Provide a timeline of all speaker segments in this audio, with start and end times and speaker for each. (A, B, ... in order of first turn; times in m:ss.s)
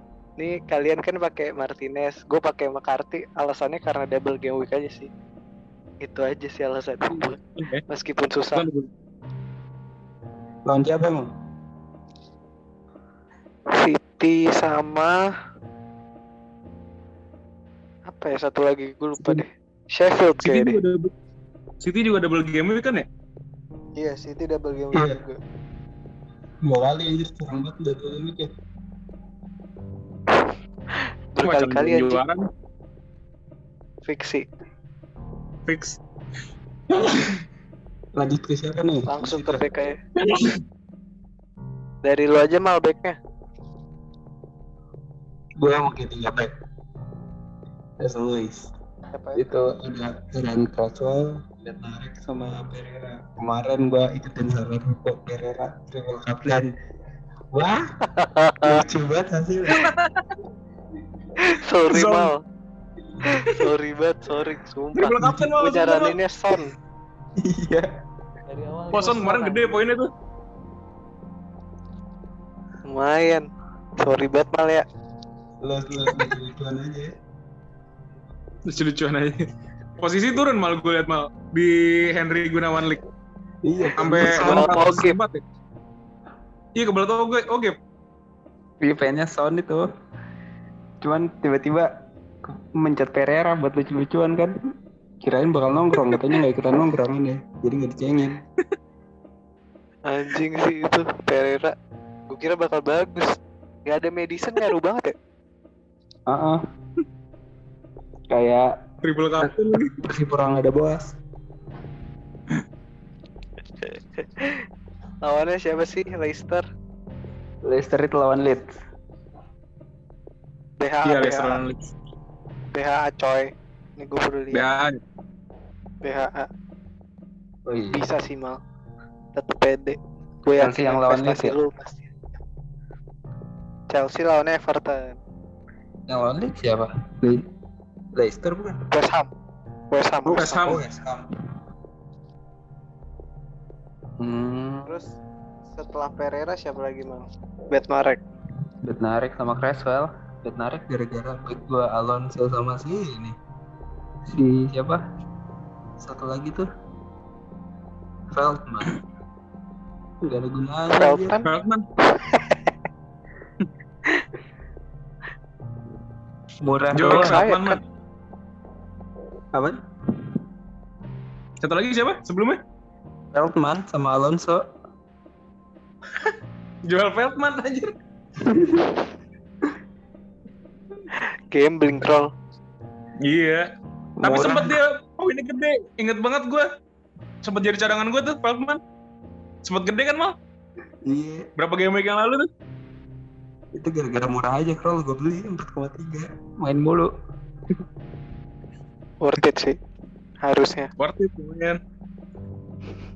0:00.4-0:05.1 A
0:06.0-0:08.7 A
0:07.6-0:07.8 B
0:08.5-0:08.9 B
0:10.6-0:11.3 C
0:13.7-0:15.2 A
0:18.1-0:20.8 A
0:20.4-0:21.1 B
0:21.8-0:23.0 B
0:24.0-0:25.4 A
0:24.9-0:25.2 C
0:26.6-0:28.5 C
0:31.3-0:32.2 A
0:31.4-0:32.5 B
0:34.0-0:34.4 A
0:35.7-0:36.0 B
0:36.9-0:37.3 B
0:38.2-0:39.6 C
0:39.1-0:40.0 A
0:40.2-0:40.6 B
0:42.0-0:43.2 A
0:45.6-0:46.5 C
0:48.0-0:48.7 C
0:49.1-0:49.4 A
0:49.3-0:56.7 C
0:57.5-0:57.8 C
0:58.2-0:58.8 A
0:58.6-0:59.9 C
0:59.7-1:00.2 B
1:01.4-1:02.4 A
1:01.9-1:02.3 B
1:03.2-1:06.7 A
1:05.0-1:06.2 B
1:05.2-1:05.5 C
1:07.4-1:07.9 C
1:08.5-1:09.8 A
1:08.9-1:10.1 B
1:12.9-1:13.5 A
1:14.0-1:14.8 A
1:15.6-1:17.1 C
1:18.7-1:19.4 B
1:20.0-1:23.0 B
1:23.6-1:24.7 C
1:24.0-1:25.4 B
1:24.2-1:25.2 A
1:26.8-1:27.8 B
1:28.8-1:29.8 C
1:31.0-1:31.9 C
1:32.4-1:34.5 C
1:35.2-1:38.4 C
1:40.1-1:41.7 A
1:42.3-1:45.1 A
1:46.3-1:46.6 C
1:48.3-1:48.7 C
1:49.0-1:49.9 B
1:49.4-1:51.2 C
1:53.8-1:54.6 A
1:55.2-1:56.6 A
1:57.6-1:58.8 C
2:00.8-2:01.6 A
2:01.0-2:01.9 B
2:02.7-2:04.6 A
2:04.5-2:05.0 B
2:06.0-2:06.5 A
2:07.6-2:08.0 C
2:07.9-2:08.6 A
2:09.4-2:12.0 A
2:10.6-2:11.6 C
2:13.9-2:15.2 A
2:16.1-2:17.4 C
2:18.1-2:18.8 C
2:18.9-2:19.3 A
2:19.9-2:20.6 A
2:20.3-2:20.8 B
2:20.4-2:21.3 C
2:24.2-2:24.9 C
2:24.8-2:25.1 A
2:25.7-2:28.2 A
2:28.8-2:33.4 C
2:34.3-2:35.0 C
2:36.0-2:36.7 C
2:38.3-2:39.0 C
2:40.2-2:41.4 C
2:40.9-2:41.5 A
2:41.4-2:41.8 B
2:42.2-2:42.6 A
2:46.6-2:47.4 C
2:47.0-2:47.8 B
2:47.0-2:47.8 A
2:49.5-2:50.4 C
2:51.6-2:52.6 B
2:53.3-2:54.6 C
2:56.9-2:57.9 B
2:58.4-2:59.0 C
3:01.5-3:02.3 A
3:03.2-3:03.7 B
3:04.2-3:04.8 C
3:04.2-3:06.7 B
3:07.4-3:08.8 B
3:09.6-3:10.3 B
3:11.0-3:11.5 C
3:11.6-3:12.5 B
3:13.7-3:17.1 C
3:19.2-3:19.8 A
3:20.4-3:20.9 A
3:21.0-3:21.8 B